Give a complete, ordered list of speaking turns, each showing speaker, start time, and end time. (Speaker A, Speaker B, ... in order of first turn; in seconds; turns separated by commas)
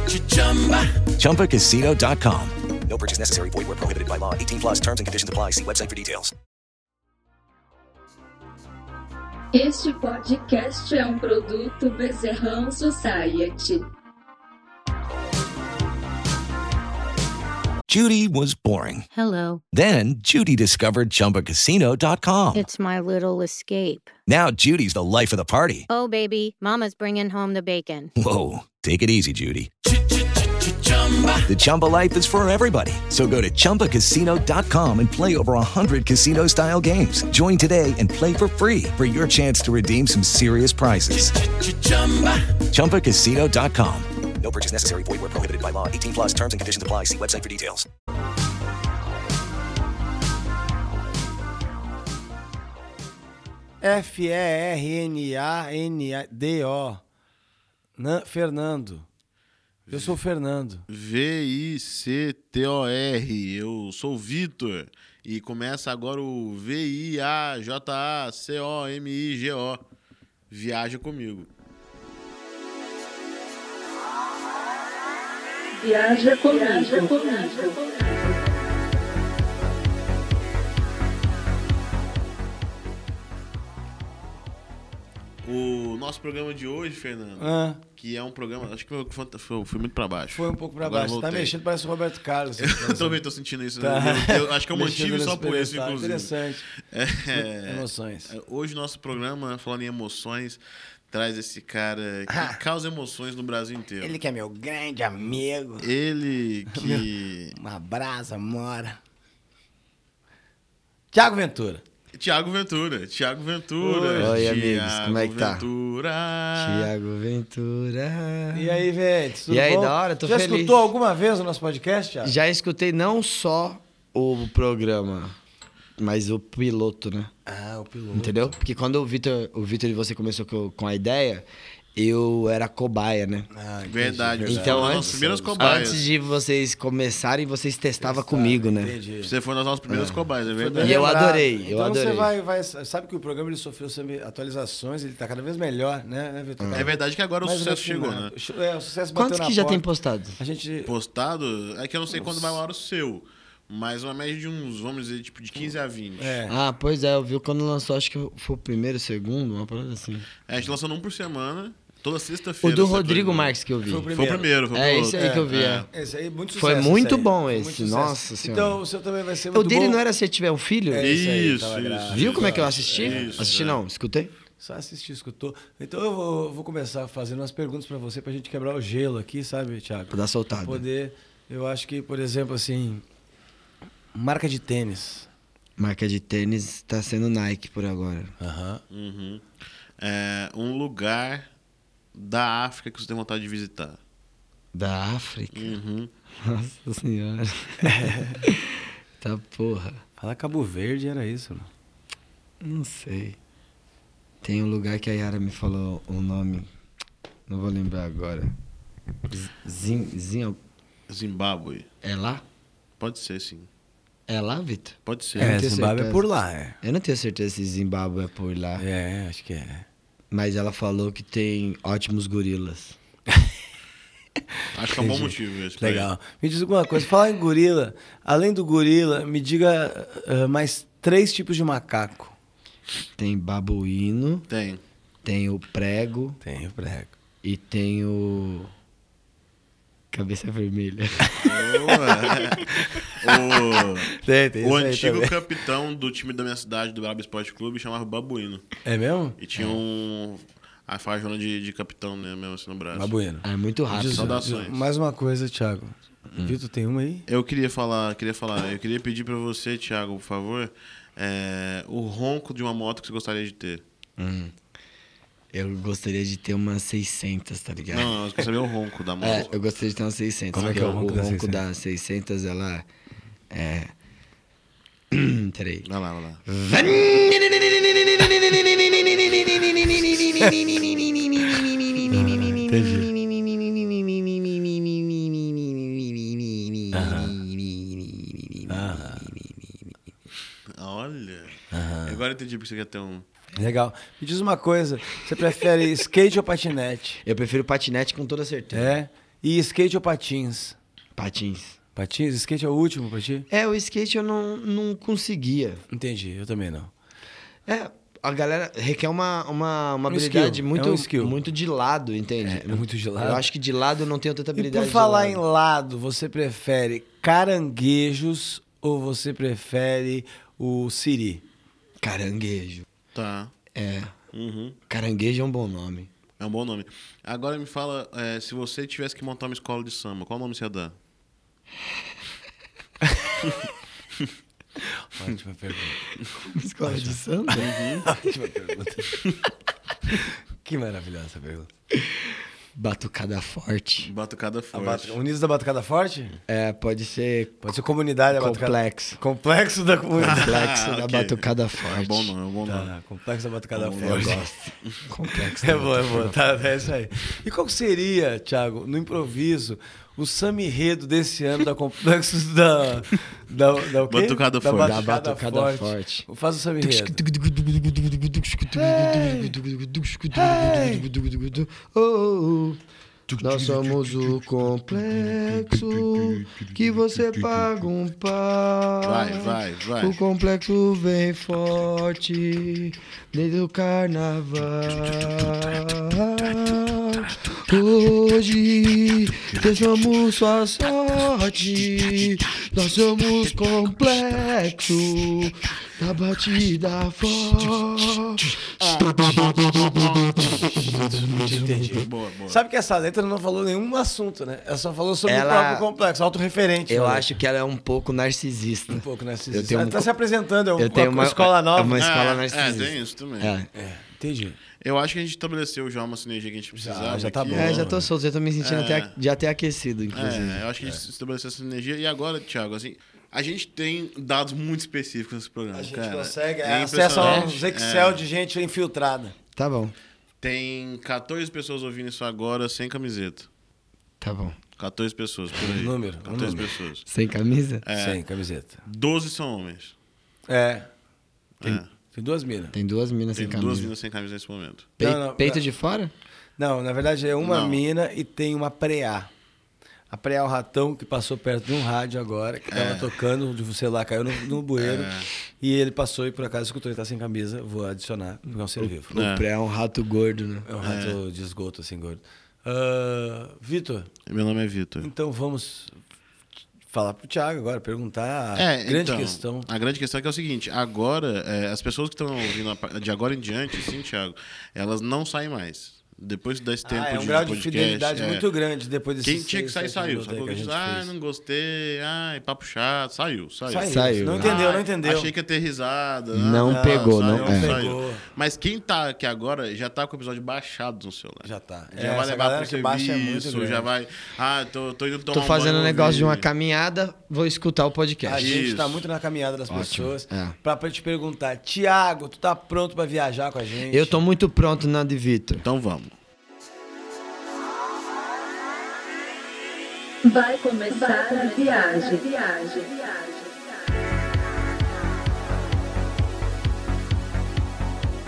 Speaker A: 0.3-0.8, Speaker B: 1.1-6.3, Speaker A: 9.5-13.9, Speaker B: 17.9-19.1, Speaker C: 19.1-19.6, Speaker B: 19.7-22.7, Speaker C: 22.6-24.1, Speaker B: 24.3-25.9, Speaker C: 25.9-28.1, Speaker B: 28.2-29.7, Speaker A: 30.8-31.4, Speaker B: 31.5-47.9, Speaker D: 53.8-57.0, Speaker D: 58.0-59.1, Speaker D: 59.9-60.8, Speaker E: 59.9-60.2, Speaker E: 60.9-69.8, Speaker E: 70.5-71.5, Speaker A: 75.8-78.4, Speaker E: 85.4-91.5, Speaker D: 87.4-87.8, Speaker D: 90.3-93.2, Speaker E: 92.6-96.3, Speaker D: 93.8-96.6, Speaker E: 96.9-104.2, Speaker D: 97.3-98.3, Speaker D: 102.3-102.6, Speaker D: 104.0-105.9, Speaker E: 105.8-107.5, Speaker D: 106.7-109.0, Speaker D: 111.1-111.8, Speaker E: 112.1-116.9, Speaker D: 113.8-114.4, Speaker F: 114.2-115.7, Speaker F: 116.5-118.8, Speaker D: 118.5-122.3, Speaker F: 119.5-120.9, Speaker F: 122.2-125.4, Speaker F: 126.0-127.3, Speaker D: 127.5-128.6, Speaker F: 128.1-133.5, Speaker D: 133.5-135.9, Speaker E: 133.9-136.0, Speaker F: 134.4-138.9, Speaker D: 138.0-139.3, Speaker E: 139.2-141.1, Speaker F: 139.9-142.3, Speaker D: 140.5-149.8, Speaker F: 146.6-146.9, Speaker E: 146.7-148.3, Speaker F: 149.1-150.4, Speaker D: 150.4-150.9, Speaker E: 150.8-156.4, Speaker D: 152.2-152.6, Speaker D: 156.2-156.6, Speaker F: 156.5-160.3, Speaker E: 160.5-163.6, Speaker F: 162.6-164.1, Speaker D: 163.8-164.5, Speaker E: 164.1-165.9, Speaker F: 164.7-165.9, Speaker D: 165.1-170.0, Speaker F: 166.6-168.8, Speaker F: 169.5-171.2, Speaker D: 170.9-173.5, Speaker E: 171.0-173.8, Speaker F: 172.1-174.3, Speaker D: 174.6-183.0, Speaker F: 180.1-180.8, Speaker D: 184.1-185.3, Speaker F: 185.8-188.3, Speaker D: 188.4-188.8, Speaker E: 188.9-189.4, Speaker E: 190.0-191.4, Speaker E: 192.1-194.0, Speaker F: 194.7-195.8, Speaker E: 195.5-196.1, Speaker F: 196.4-200.0, Speaker D: 197.8-198.4, Speaker D: 200.2-201.7, Speaker F: 202.6-203.4, Speaker F: 204.4-206.7, Speaker F: 207.5-208.5, Speaker F: 209.3-210.6, Speaker E: 211.1-211.9, Speaker F: 212.0-212.4, Speaker E: 213.0-213.7, Speaker F: 214.3-216.2, Speaker E: 215.1-215.6, Speaker D: 215.4-216.8, Speaker F: 216.8-218.8, Speaker D: 218.8-219.9, Speaker F: 220.3-222.9, Speaker E: 224.7-226.1, Speaker D: 224.9-232.3, Speaker F: 233.2-234.5, Speaker E: 234.5-234.8, Speaker F: 235.2-236.4, Speaker D: 236.4-237.1, Speaker F: 237.4-238.7, Speaker F: 240.1-241.4, Speaker D: 241.3-245.4, Speaker E: 241.4-244.1, Speaker E: 244.6-248.6, Speaker D: 248.8-249.4, Speaker E: 249.4-253.1, Speaker D: 252.9-257.2, Speaker F: 253.4-254.4, Speaker E: 254.1-254.8, Speaker E: 257.3-263.8, Speaker F: 264.2-264.5, Speaker F: 265.5-268.2, Speaker E: 267.9-269.5, Speaker F: 269.2-272.9, Speaker E: 270.5-270.9, Speaker D: 270.5-271.6, Speaker F: 273.5-273.9, Speaker F: 275.1-275.9, Speaker E: 275.8-276.4, Speaker F: 276.4-289.9, Speaker D: 282.1-283.1, Speaker D: 286.9-287.4, Speaker D: 288.7-289.3, Speaker E: 290.7-293.2, Speaker D: 291.7-292.2, Speaker D: 293.6-297.2, Speaker F: 297.2-298.9, Speaker D: 298.7-300.8, Speaker F: 301.1-301.8, Speaker D: 301.9-303.4, Speaker F: 303.5-305.8, Speaker D: 305.9-306.9, Speaker F: 307.7-315.4, Speaker D: 310.1-311.4, Speaker D: 312.4-313.4, Speaker D: 314.6-321.4, Speaker F: 322.0-322.8, Speaker E: 323.1-323.5, Speaker F: 323.7-324.1, Speaker E: 324.3-324.8, Speaker F: 324.9-326.1, Speaker E: 326.4-330.9, Speaker D: 335.0-336.0, Speaker F: 336.4-337.7, Speaker D: 336.9-339.2, Speaker E: 337.6-338.0, Speaker D: 340.1-341.7, Speaker F: 341.9-344.1, Speaker E: 344.0-345.2, Speaker D: 344.7-346.3, Speaker F: 346.5-347.6, Speaker D: 347.6-350.5, Speaker F: 348.3-349.2, Speaker F: 350.2-352.3, Speaker E: 350.2-352.9, Speaker D: 352.6-354.4, Speaker E: 353.7-354.9, Speaker F: 354.0-356.4, Speaker D: 355.6-367.2, Speaker E: 364.1-365.1, Speaker F: 364.7-366.3, Speaker F: 366.8-372.8, Speaker D: 368.7-369.5, Speaker D: 370.4-371.0, Speaker D: 373.3-374.4, Speaker F: 373.4-398.6, Speaker E: 379.0-380.1, Speaker E: 398.8-402.6, Speaker D: 400.7-407.3, Speaker F: 405.2-405.9, Speaker F: 406.9-410.1, Speaker D: 408.9-412.1, Speaker F: 410.8-413.7, Speaker E: 411.9-413.5, Speaker D: 413.8-414.6, Speaker E: 414.8-417.9, Speaker D: 416.7-418.0, Speaker F: 417.5-420.6, Speaker E: 418.6-419.1, Speaker E: 420.1-428.2, Speaker D: 425.7-429.3, Speaker F: 427.2-427.6, Speaker F: 429.6-429.9, Speaker E: 430.4-433.5, Speaker F: 434.2-434.6, Speaker E: 434.8-437.1, Speaker D: 435.6-436.8, Speaker F: 437.1-437.8, Speaker E: 437.8-438.2, Speaker D: 437.9-438.8, Speaker E: 438.8-439.9, Speaker D: 440.5-440.9, Speaker E: 441.6-441.9, Speaker D: 442.1-442.8, Speaker F: 442.7-443.9, Speaker E: 443.3-444.9, Speaker F: 445.0-446.1, Speaker D: 445.0-445.6, Speaker D: 446.6-449.3, Speaker E: 447.4-447.8, Speaker D: 450.1-459.1, Speaker E: 452.7-453.1, Speaker E: 454.8-455.3, Speaker F: 459.1-460.7, Speaker E: 459.1-459.4, Speaker D: 460.6-464.1, Speaker E: 460.8-461.2, Speaker E: 464.3-465.1, Speaker D: 465.0-465.9, Speaker D: 466.9-469.7, Speaker E: 468.5-478.5, Speaker D: 476.8-481.1, Speaker E: 479.2-496.5, Speaker D: 483.7-485.3, Speaker F: 483.9-484.6, Speaker F: 486.3-487.8, Speaker D: 486.6-488.2, Speaker D: 491.4-493.9, Speaker F: 495.3-498.6, Speaker D: 498.2-504.2, Speaker E: 498.4-499.1, Speaker F: 499.7-500.6, Speaker F: 503.9-505.6, Speaker E: 505.6-506.1, Speaker A: 510.2-513.7